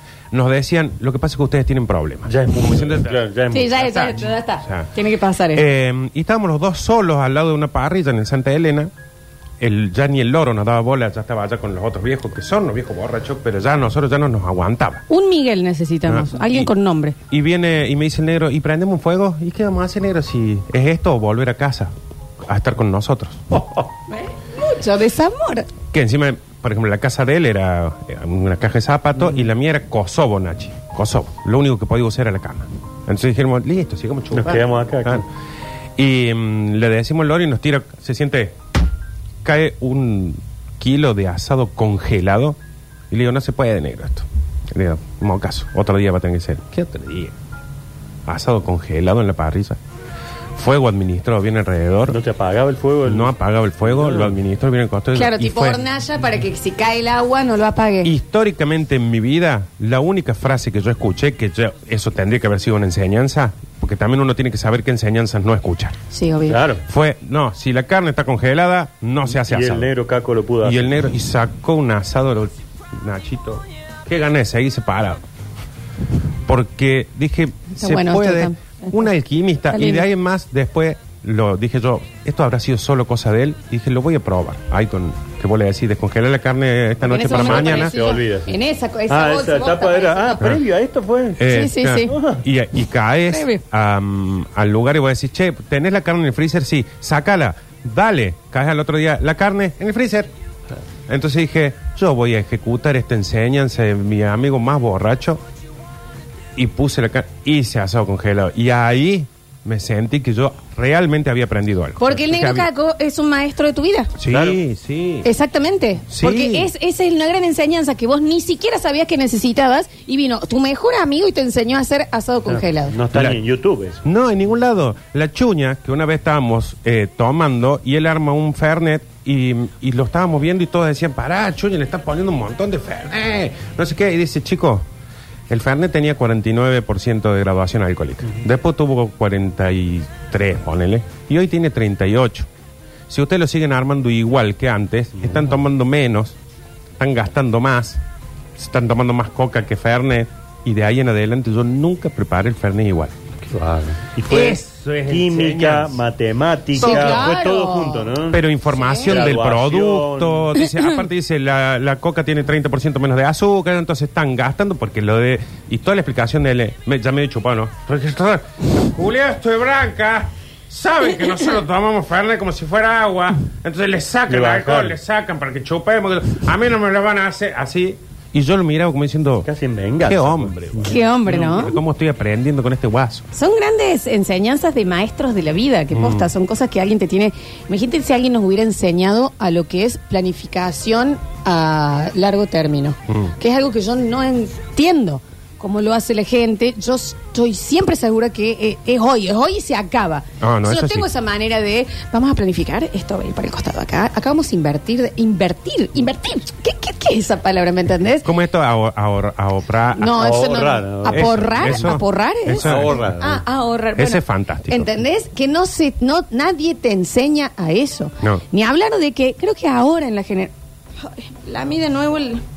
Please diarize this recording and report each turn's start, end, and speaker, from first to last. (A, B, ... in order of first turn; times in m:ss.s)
0:00.3-0:04.9 A
0:02.2-0:03.8 B
0:03.5-0:05.6 C
0:05.5-0:08.9 A
0:09.6-0:15.0 A
0:15.1-0:17.2 C
0:16.1-0:16.7 A
0:17.3-0:21.9 A
0:22.5-0:23.4 A
0:23.5-0:23.8 B
0:24.1-0:25.7 C
0:25.9-0:35.2 A
0:34.3-0:35.2 B
0:36.0-0:38.6 A
0:39.4-0:42.6 A
0:43.1-0:47.3 A
0:48.3-0:49.8 A
0:50.6-0:52.2 A
0:52.1-0:54.3 B
0:53.0-0:55.8 A
0:55.1-0:58.1 C
0:58.0-1:06.0 A
1:06.1-1:06.6 C
1:06.5-1:06.8 B
1:06.8-1:09.9 A
1:09.3-1:10.9 B
1:10.6-1:15.2 A
1:16.4-1:27.9 A
1:17.8-1:19.1 C
1:19.7-1:20.1 C
1:27.0-1:30.4 C
1:27.2-1:28.5 B
1:29.1-1:31.4 B
1:31.4-1:40.3 A
1:31.4-1:32.1 C
1:32.1-1:32.4 B
1:33.3-1:33.6 C
1:41.1-1:45.4 A
1:46.6-1:52.7 A
1:52.0-1:54.1 C
1:54.2-1:55.3 A
1:54.3-1:54.6 B
1:55.2-2:03.0 C
1:56.1-1:56.7 A
2:02.5-2:04.0 B
2:03.1-2:03.4 A
2:04.0-2:14.8 A
2:15.5-2:22.5 A
2:23.1-2:26.4 A
2:27.0-2:28.0 A
2:28.6-2:33.1 A
2:33.5-2:38.4 B
2:34.3-2:36.0 A
2:36.8-2:37.3 A
2:36.8-2:38.1 C
2:38.3-2:59.5 A
2:38.7-2:39.2 C
2:39.0-2:40.5 B
2:54.3-2:55.0 B
2:59.4-3:00.9 B
3:00.0-3:03.2 A
3:00.8-3:01.8 C
3:03.3-3:28.3 C
3:05.9-3:06.3 A
3:13.1-3:13.3 A
3:20.4-3:21.1 A
3:28.2-3:30.2 A
3:30.0-3:42.4 C
3:30.1-3:32.0 B
3:31.1-3:33.2 A
3:32.6-3:33.4 B
3:34.0-3:34.9 A